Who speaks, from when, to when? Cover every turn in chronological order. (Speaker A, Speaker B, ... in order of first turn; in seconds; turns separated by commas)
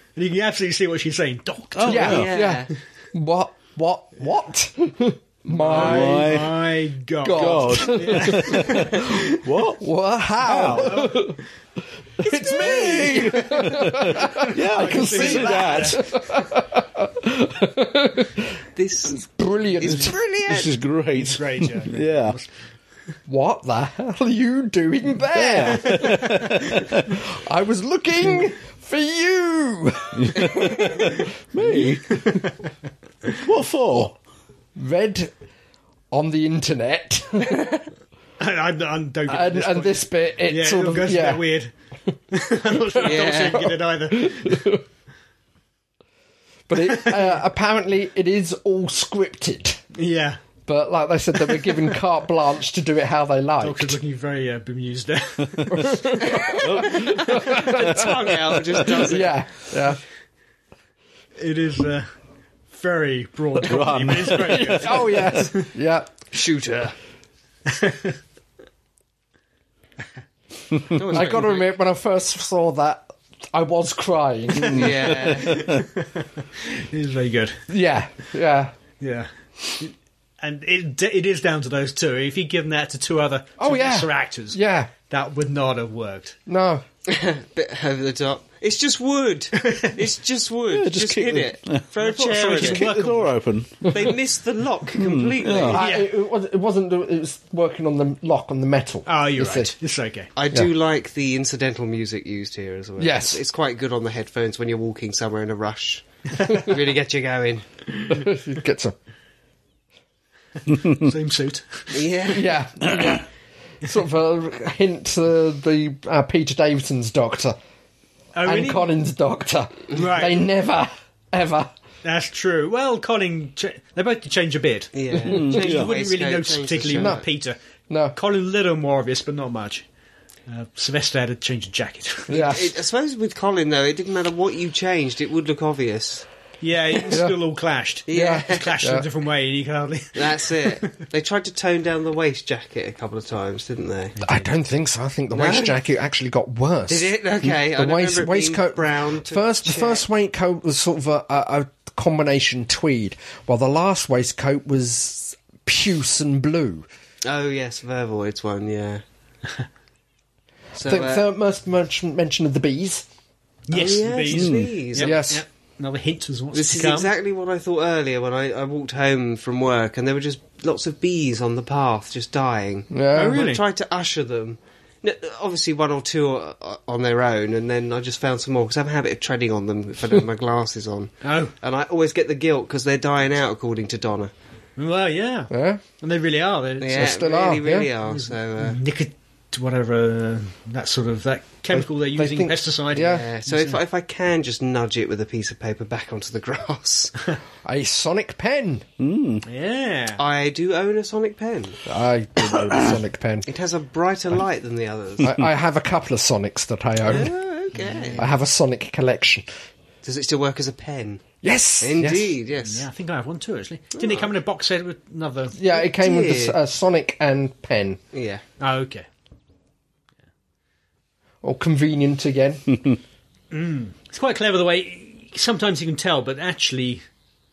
Speaker A: 0.1-2.4, Speaker B: 1.7-2.3, Speaker C: 1.8-6.5, Speaker D: 2.0-2.7, Speaker A: 5.5-9.0, Speaker B: 5.6-6.7, Speaker C: 7.2-11.4, Speaker B: 7.3-9.8, Speaker B: 10.4-11.1, Speaker A: 10.6-11.3, Speaker C: 12.2-18.6, Speaker D: 12.2-13.7, Speaker B: 12.5-16.1, Speaker A: 14.1-16.1, Speaker D: 18.8-19.2, Speaker C: 19.1-20.1, Speaker D: 19.8-20.8, Speaker B: 20.5-22.4, Speaker A: 21.2-22.5, Speaker C: 23.3-32.4, Speaker B: 25.5-27.1, Speaker A: 25.8-26.5, Speaker B: 30.2-32.4, Speaker B: 33.4-34.2, Speaker C: 34.8-35.3, Speaker C: 36.1-37.8, Speaker A: 38.4-41.7, Speaker C: 39.3-41.4, Speaker A: 42.3-44.8, Speaker C: 42.7-44.8, Speaker D: 43.0-43.7, Speaker C: 46.7-49.8, Speaker A: 46.8-47.2, Speaker A: 49.9-50.4, Speaker C: 50.7-54.0, Speaker A: 53.6-56.4, Speaker C: 55.7-58.2, Speaker D: 56.2-59.4, Speaker B: 56.6-57.7, Speaker C: 58.9-60.0, Speaker A: 61.4-62.1, Speaker A: 62.7-65.7, Speaker B: 63.6-65.2, Speaker C: 64.3-66.1, Speaker D: 66.3-66.9, Speaker A: 67.7-68.2, Speaker D: 70.9-71.6, Speaker C: 71.1-75.2, Speaker D: 74.6-75.8, Speaker B: 74.6-75.8, Speaker A: 75.4-77.6, Speaker C: 77.7-78.7, Speaker A: 79.0-86.4, Speaker C: 83.6-84.9, Speaker C: 86.5-86.8, Speaker D: 87.1-92.9, Speaker A: 89.5-90.0, Speaker B: 90.7-94.1, Speaker A: 92.0-93.3, Speaker D: 93.9-95.8, Speaker B: 94.9-95.8, Speaker C: 95.7-99.7, Speaker A: 95.7-96.1, Speaker A: 99.0-100.3, Speaker D: 100.3-107.6, Speaker C: 103.0-103.4, Speaker A: 106.4-106.7, Speaker C: 108.1-108.9, Speaker A: 110.7-112.0, Speaker D: 111.9-112.6, Speaker C: 112.3-113.3, Speaker C: 113.8-117.5, Speaker A: 118.3-118.9, Speaker C: 118.4-121.7, Speaker A: 119.9-120.4, Speaker A: 122.0-127.6, Speaker D: 124.9-127.2, Speaker B: 125.2-125.9, Speaker C: 126.9-127.2, Speaker C: 127.9-128.2, Speaker A: 128.1-129.8, Speaker A: 130.5-132.6, Speaker C: 132.3-132.7, Speaker D: 132.3-136.3, Speaker A: 136.6-140.9, Speaker D: 138.1-138.8, Speaker C: 138.1-139.1, Speaker D: 140.1-144.2, Speaker A: 144.2-144.4, Speaker C: 144.2-156.9, Speaker D: 145.3-145.8, Speaker D: 146.9-150.0, Speaker D: 157.2-159.0, Speaker D: 160.8-161.2, Speaker C: 160.8-163.1, Speaker A: 163.7-167.1, Speaker D: 163.7-165.2, Speaker B: 164.3-164.7, Speaker C: 165.0-165.4, Speaker D: 166.5-184.3, Speaker C: 172.9-173.4, Speaker A: 173.1-173.6, Speaker A: 181.2-181.5, Speaker A: 184.8-187.2, Speaker C: 185.5-185.8, Speaker D: 186.8-188.8, Speaker C: 186.9-187.9, Speaker A: 188.1-193.8, Speaker C: 191.7-193.2, Speaker D: 192.9-197.1, Speaker C: 197.6-198.8, Speaker B: 199.0-199.4, Speaker A: 199.4-200.2, Speaker D: 200.2-201.8, Speaker C: 201.8-203.5, Speaker D: 203.5-205.3, Speaker C: 205.2-207.3, Speaker D: 207.0-208.2, Speaker A: 207.7-208.3, Speaker C: 208.2-209.4, Speaker D: 210.0-211.3, Speaker C: 211.4-212.3, Speaker D: 211.8-212.9, Speaker A: 212.6-215.6, Speaker D: 213.9-214.3, Speaker C: 215.5-218.0, Speaker D: 215.7-216.6, Speaker D: 218.1-218.4, Speaker A: 218.6-219.1, Speaker C: 221.4-222.7, Speaker A: 223.5-227.0